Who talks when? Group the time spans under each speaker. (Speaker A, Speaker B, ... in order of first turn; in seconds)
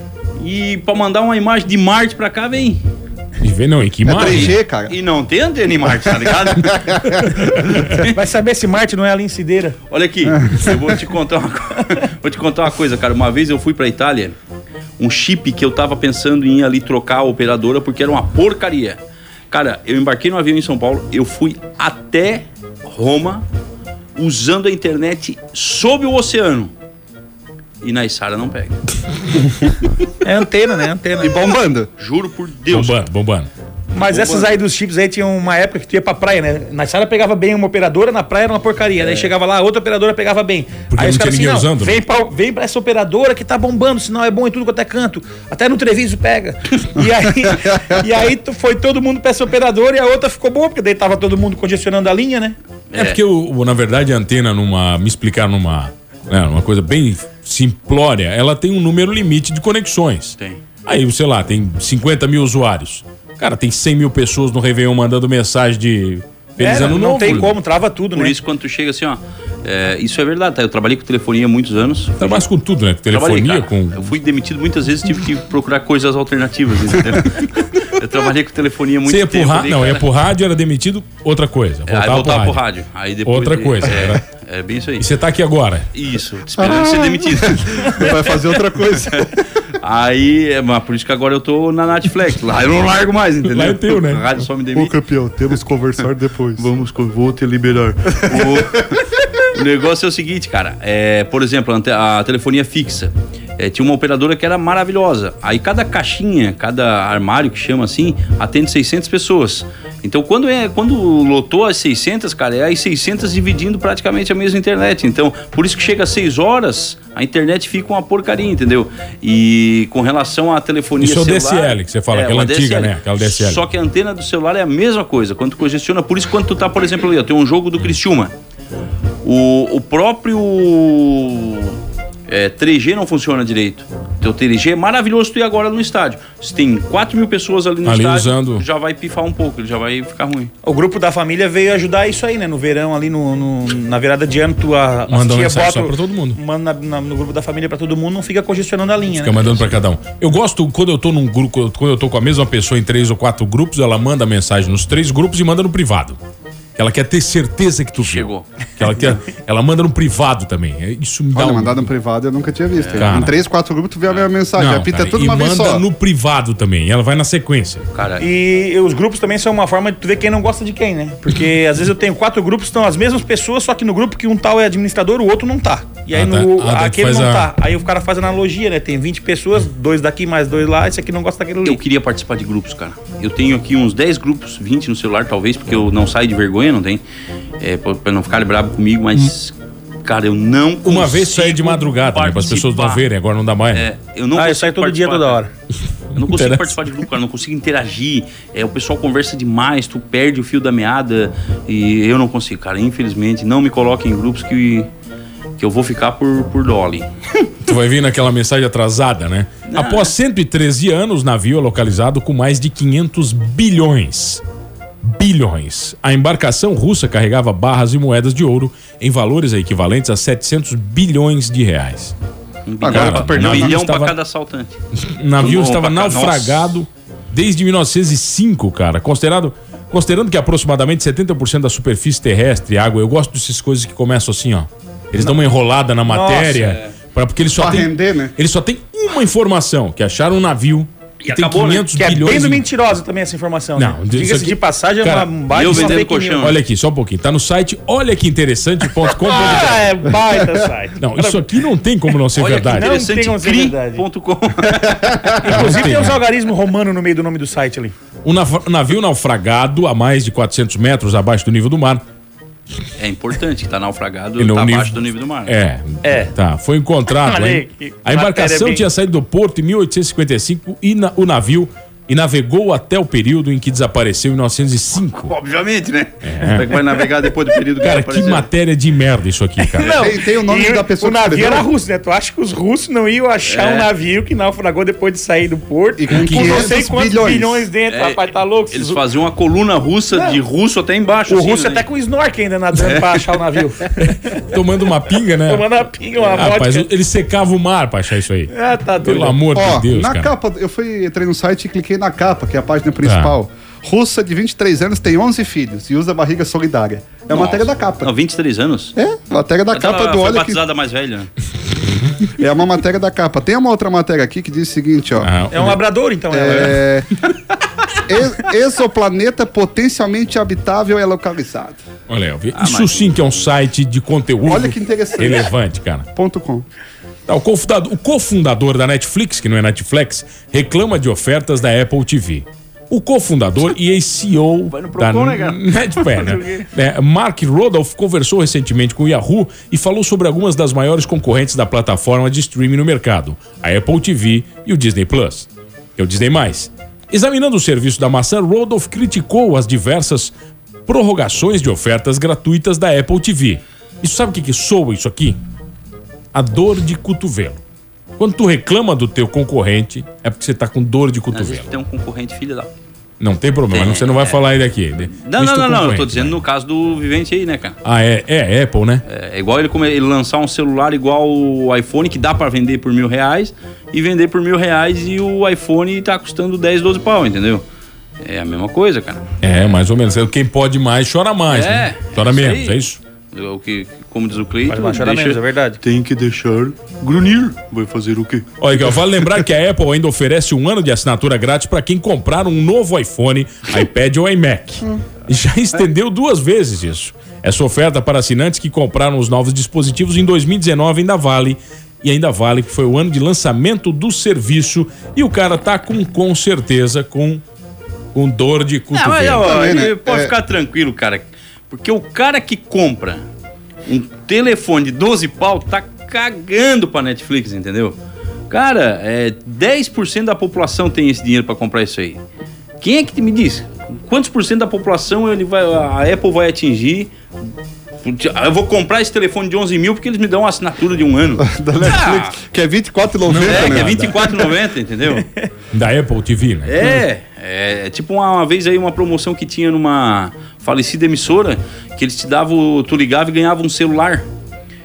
Speaker A: 0.4-2.8, 4.2-6.8, 7.4-8.1, 9.9-14.3, 15.0-19.0, 19.5-23.4, 24.1-26.7, 27.8-28.8, 31.2-33.0, 33.9-34.5, 39.0-39.3, 52.9-53.2, 67.2-67.5, 68.1-72.4, 73.1-80.1, 81.9-85.0, 85.9-88.3, 89.8-95.0, 96.6-128.3, 129.2-131.8, 132.3-140.5, 158.0-158.5, 162.8-163.3, 167.9-168.2, 181.6-187.0, 187.6-189.5, 190.0-193.0, 193.7-195.4, 196.2-204.9, 205.6-207.5, 209.7-210.1, 222.7-224.8, 225.4-226.8, 241.2-242.0, 245.5-246.6, 252.3-256.1, 263.0-265.5, 275.1-278.5, 283.5-283.9, 287.9-291.8, 292.9-293.2, 307.3-308.9, 309.7-311.3, 322.5-323.2, 334.7-336.7, 361.3-362.7, 363.7-364.4, 365.1-367.8, 369.1-377.6, 378.2-379.3, 381.5-382.8, 383.3-388.5, 408.9-413.2, 413.9-417.9, 418.5-422.2, 422.8-427.1, 428.0-432.4, 433.4-435.3, 436.7-444.3
Speaker B: 3.4-4.6, 32.7-33.5, 40.9-42.0, 53.0-67.5, 72.2-74.1, 79.0-82.6, 83.2-84.2, 85.0-85.9, 93.5-94.3, 121.0-123.6, 137.8-138.6, 145.1-146.4, 149.2-156.2, 156.8-161.9, 163.0-163.3, 164.5-167.9, 176.1-177.5, 190.8-193.8, 196.1-196.7, 207.6-214.4, 215.0-222.1, 222.8-224.1, 224.9-242.7, 243.8-250.1, 251.0-252.9, 255.4-256.2, 258.2-262.0, 264.4-275.3, 276.2-276.7, 277.8-280.0, 286.1-286.8, 294.0-295.7, 296.3-300.3, 303.0-303.3, 315.2-315.8, 322.1-326.1, 327.3-350.3, 350.9-355.4, 356.3-357.6, 358.2-361.6, 363.2-366.4, 367.8-369.0, 379.4-383.0, 388.6-407.4, 408.1-409.6, 433.3-434.2, 435.7-436.9
Speaker C: 4.0-5.0, 5.9-7.3, 10.5-10.8, 31.2-31.9, 86.6-89.4, 94.7-96.7, 98.3-98.7, 161.3-165.8, 222.8-223.8, 237.6-238.3, 279.9-281.7, 286.0-287.7, 299.5-308.1, 308.9-310.6, 312.4-315.3, 316.3-317.1, 318.1-321.8, 324.4-325.5, 326.1-326.6, 409.4-410.3, 431.4-433.9
Speaker D: 8.1-9.8, 30.2-31.3, 33.9-52.5, 66.6-68.3, 140.6-149.5, 168.2-181.8, 194.3-195.5, 236.1-236.7, 241.9-246.5, 249.2-251.4, 252.7-254.0, 255.4-257.9, 266.0-266.3, 267.1-268.8, 279.6-289.0, 290.1-290.4, 291.3-294.4, 295.5-296.9, 298.5-299.4, 315.5-316.8, 384.7-385.8